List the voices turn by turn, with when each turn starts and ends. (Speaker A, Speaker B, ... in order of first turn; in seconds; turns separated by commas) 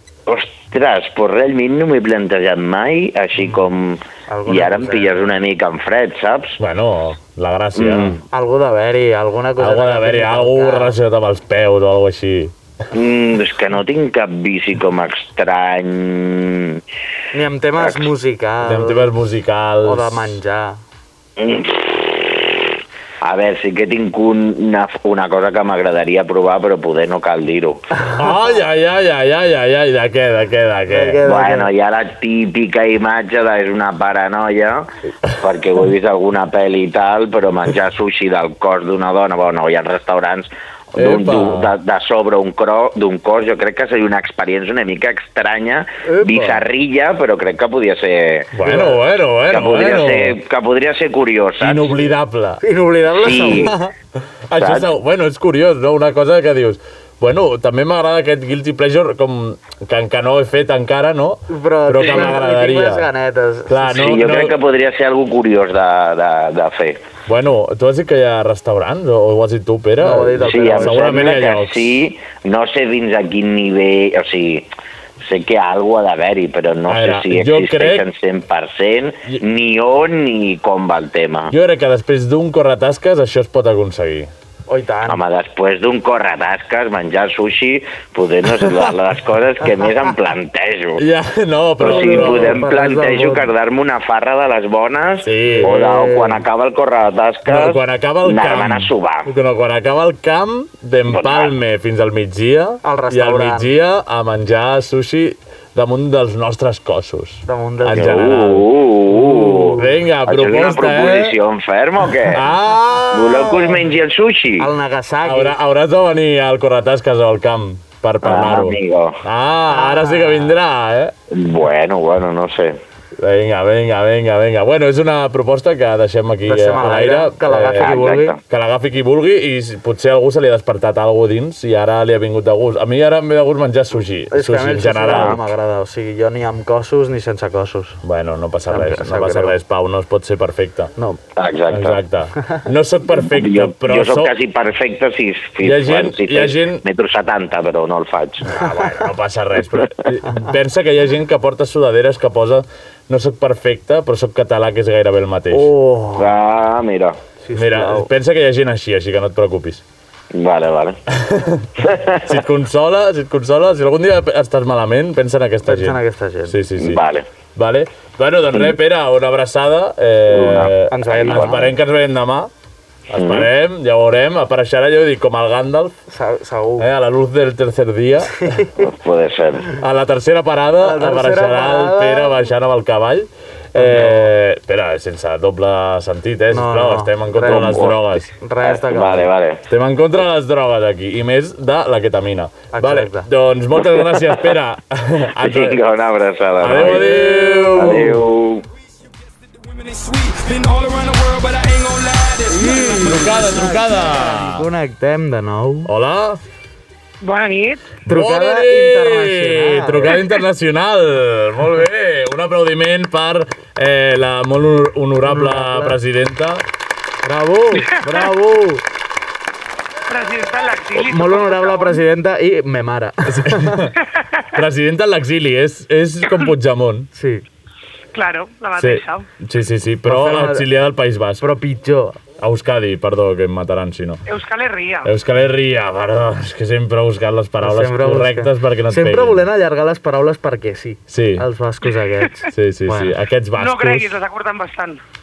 Speaker A: 0.3-6.6, Speaker B: 4.3-5.1, Speaker C: 6.6-8.2, Speaker A: 7.8-8.2, Speaker B: 8.3-10.9, Speaker C: 9.6-12.5, Speaker A: 12.9-16.8, Speaker B: 17.3-19.1, Speaker C: 18.6-20.4, Speaker B: 19.8-20.8, Speaker A: 21.4-22.7, Speaker A: 23.2-27.8, Speaker C: 28.1-31.2, Speaker B: 30.9-31.7, Speaker A: 31.2-48.8, Speaker C: 40.9-41.7, Speaker B: 46.0-46.6, Speaker C: 48.5-50.4, Speaker B: 48.6-49.0, Speaker A: 49.5-52.0, Speaker C: 51.6-52.6, Speaker B: 52.6-53.9, Speaker A: 53.1-53.7, Speaker C: 54.5-63.1, Speaker A: 54.5-54.9, Speaker B: 61.5-64.0, Speaker A: 62.1-62.4, Speaker C: 63.7-64.6, Speaker A: 63.9-67.0, Speaker C: 67.3-71.9, Speaker B: 70.0-71.2, Speaker A: 70.4-74.7, Speaker A: 75.2-81.5, Speaker C: 76.9-78.0, Speaker C: 81.5-84.3, Speaker B: 84.7-85.2, Speaker A: 85.1-91.0, Speaker C: 91.0-92.6, Speaker A: 91.8-99.3, Speaker B: 91.8-93.5, Speaker C: 95.2-95.7, Speaker B: 95.6-96.4, Speaker C: 97.5-108.7, Speaker A: 101.1-101.5, Speaker B: 102.8-103.7, Speaker B: 107.5-108.2, Speaker A: 107.9-112.4, Speaker B: 109.1-109.9, Speaker C: 109.8-111.3, Speaker C: 112.3-113.8, Speaker A: 113.1-114.7, Speaker B: 114.6-115.5, Speaker C: 115.2-121.1, Speaker A: 118.2-119.2, Speaker B: 119.7-120.5, Speaker A: 121.3-122.8, Speaker C: 123.2-135.4, Speaker B: 126.4-128.3, Speaker A: 127.8-128.4, Speaker B: 134.3-138.0, Speaker A: 135.1-135.4, Speaker C: 138.0-140.9, Speaker B: 138.7-139.6, Speaker A: 141.3-142.0, Speaker C: 141.7-144.3, Speaker A: 143.1-148.6, Speaker C: 145.6-146.8, Speaker C: 148.5-155.7, Speaker B: 155.5-156.3, Speaker A: 156.2-157.2, Speaker B: 157.4-158.1, Speaker C: 157.5-159.8, Speaker A: 160.3-161.0, Speaker C: 161.1-167.0, Speaker A: 161.8-162.3, Speaker B: 165.6-166.5, Speaker A: 166.8-167.3, Speaker C: 167.6-172.5, Speaker A: 170.3-171.6, Speaker B: 170.9-171.7, Speaker C: 173.1-175.9, Speaker A: 173.1-173.5, Speaker B: 176.1-176.9, Speaker C: 176.8-178.6, Speaker B: 178.4-178.8, Speaker A: 178.8-179.7, Speaker C: 179.8-188.3, Speaker B: 180.8-182.4, Speaker B: 183.8-184.3, Speaker B: 186.5-189.3, Speaker A: 187.5-187.9, Speaker A: 188.6-189.6, Speaker C: 189.7-195.8, Speaker B: 192.7-193.3, Speaker A: 195.4-197.1, Speaker C: 196.6-198.2, Speaker B: 196.7-198.0, Speaker A: 197.8-198.7, Speaker D: 199.3-203.4, Speaker B: 202.5-205.9, Speaker C: 203.0-204.7, Speaker C: 205.8-206.4, Speaker E: 207.2-207.9, Speaker C: 208.1-216.6, Speaker B: 208.1-210.2, Speaker B: 215.2-215.9, Speaker B: 217.2-218.8, Speaker E: 220.1-222.0, Speaker B: 221.0-223.8, Speaker C: 223.3-223.9, Speaker C: 224.5-227.1, Speaker B: 227.1-227.4, Speaker E: 228.1-229.3, Speaker C: 228.8-231.4, Speaker B: 230.0-230.7, Speaker B: 231.4-232.2, Speaker C: 232.4-234.2, Speaker E: 234.3-235.1, Speaker C: 235.0-239.4, Speaker B: 237.6-243.1, Speaker C: 241.1-241.4, Speaker C: 242.5-244.2, Speaker E: 243.6-245.0